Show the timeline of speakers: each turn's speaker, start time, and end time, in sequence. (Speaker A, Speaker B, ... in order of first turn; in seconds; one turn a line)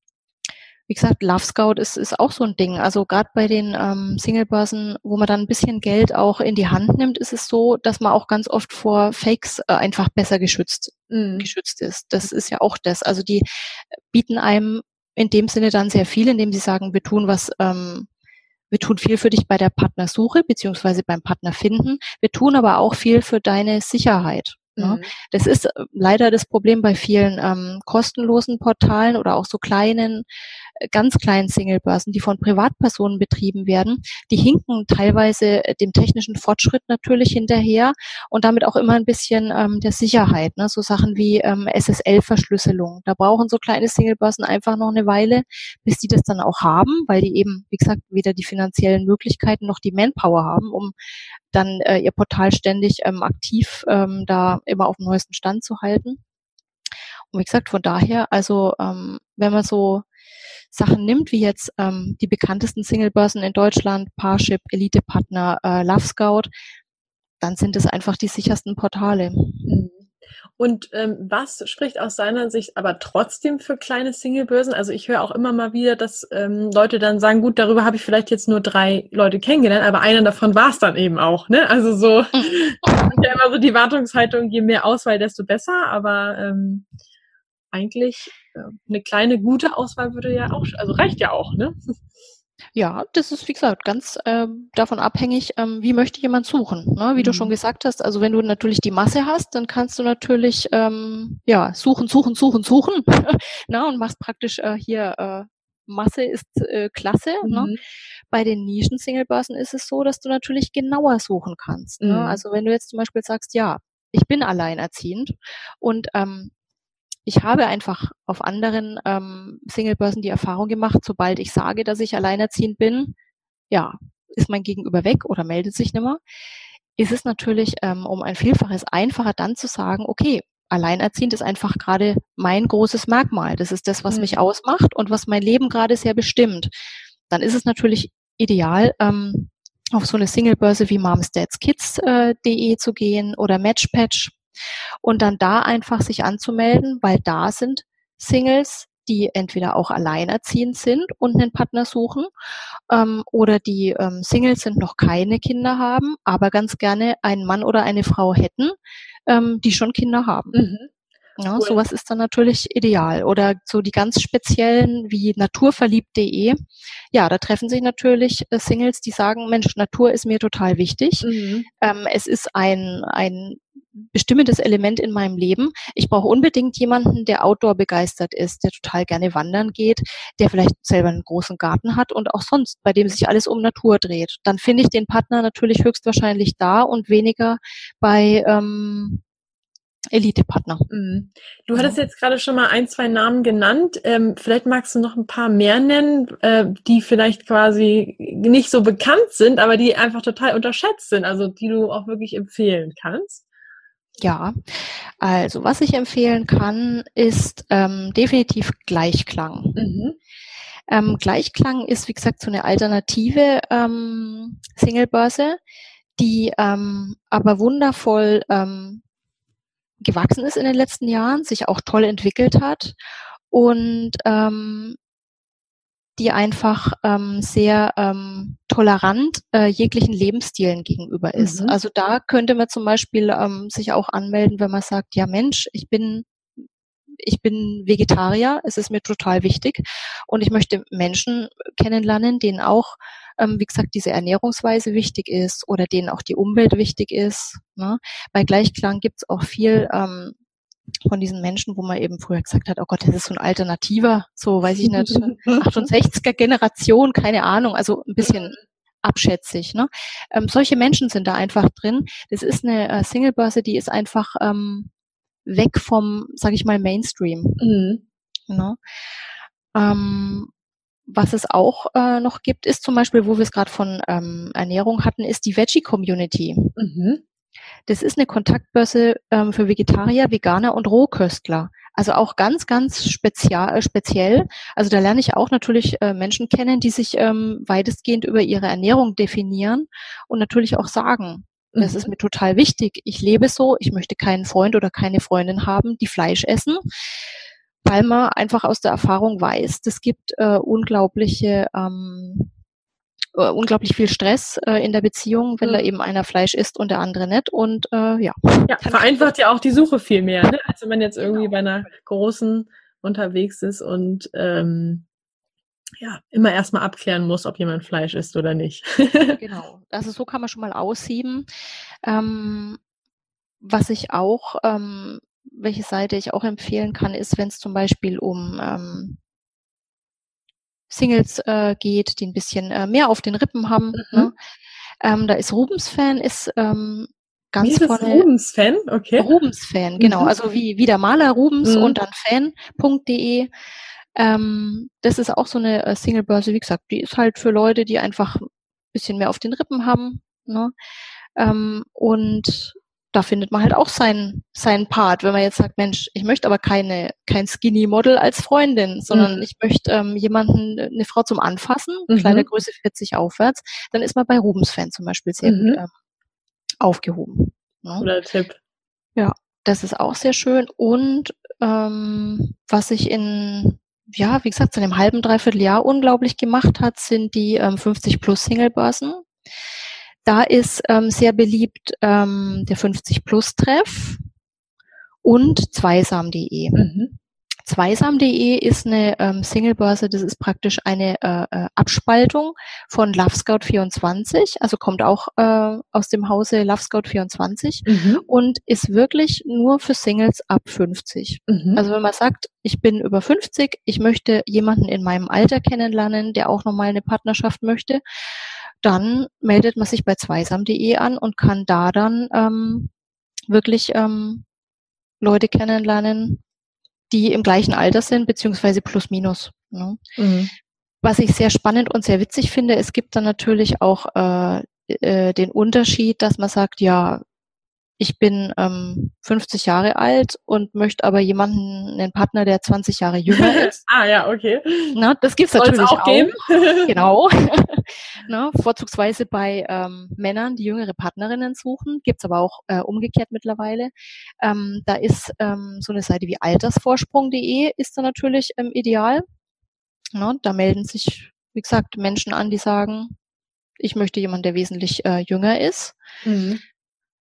Speaker A: 0.9-13.4
Speaker B: 11.1-11.5
Speaker A: 14.1-18.1
Speaker A: 18.7-30.2
Speaker B: 24.8-25.1
Speaker A: 30.8-50.9
Speaker A: 51.5-56.2
Speaker A: 57.3-60.0
Speaker A: 60.7-66.5
Speaker A: 67.4-69.7
Speaker B: 69.7-86.9
Speaker A: 82.3-83.2
Speaker B: 87.7-91.7
Speaker A: 92.8-107.7
Speaker B: 97.2-97.5
Speaker B: 107.4-107.8
Speaker A: 108.3-116.5
Speaker B: 112.0-112.4
Speaker A: 117.2-123.2
Speaker A: 123.7-126.2
Speaker A: 127.0-136.7
Speaker B: 134.1-134.3
Speaker A: 137.3-144.4
Speaker A: 145.0-152.3
Speaker A: 152.9-158.8
Speaker A: 159.3-160.6
Speaker B: 160.5-160.9
Speaker A: 161.4-166.6
Speaker A: 167.1-171.3
Speaker B: 171.2-171.7
Speaker A: 171.8-189.2
Speaker A: 190.1-190.8
Speaker B: 190.9-203.4
Speaker A: 204.2-209.8
Speaker B: 209.8-210.2
Speaker A: 210.9-215.6
Speaker A: 216.2-219.0
Speaker A: 220.0-223.0
Speaker A: 223.5-225.0
Speaker A: 226.2-236.3
Speaker B: 231.4-231.8
Speaker A: 237.2-250.3
Speaker A: 251.1-264.9
Speaker B: 254.8-255.9
Speaker B: 258.2-258.5
Speaker A: 265.5-267.6
Speaker B: 267.6-268.0
Speaker A: 268.5-268.8
Speaker A: 269.7-270.5
Speaker A: 271.1-276.7
Speaker B: 276.8-277.2
Speaker A: 277.9-296.8
Speaker B: 291.8-292.1
Speaker A: 297.8-302.5
Speaker A: 303.4-309.3
Speaker B: 308.7-315.0
Speaker A: 311.2-311.9
Speaker B: 316.0-319.4
Speaker A: 319.4-321.5
Speaker A: 322.0-322.8
Speaker A: 323.6-329.2
Speaker A: 330.9-334.3
Speaker B: 333.9-334.3
Speaker A: 335.0-338.3
Speaker B: 337.6-339.3
Speaker A: 339.2-343.5
Speaker B: 340.0-340.3
Speaker B: 341.6-342.0
Speaker A: 344.2-350.7
Speaker A: 351.4-365.9
Speaker B: 359.1-359.4
Speaker B: 362.1-362.5
Speaker B: 365.4-365.8
Speaker A: 366.8-368.1
Speaker B: 368.0-368.6
Speaker A: 369.2-379.2
Speaker A: 380.2-384.2
Speaker A: 385.2-386.8
Speaker B: 386.8-387.1
Speaker A: 387.7-408.0
Speaker B: 397.9-398.2
Speaker B: 401.5-401.8
Speaker A: 408.8-412.9
Speaker A: 413.5-414.4
Speaker A: 415.2-416.4
Speaker A: 417.1-420.0
Speaker B: 420.2-420.5
Speaker A: 421.0-427.2
Speaker A: 428.0-433.8
Speaker B: 433.3-435.0
Speaker A: 434.9-436.3
Speaker B: 435.6-436.9
Speaker A: 436.9-443.9
Speaker A: 444.4-449.2
Speaker A: 450.1-453.1
Speaker A: 453.8-456.0
Speaker B: 456.2-456.6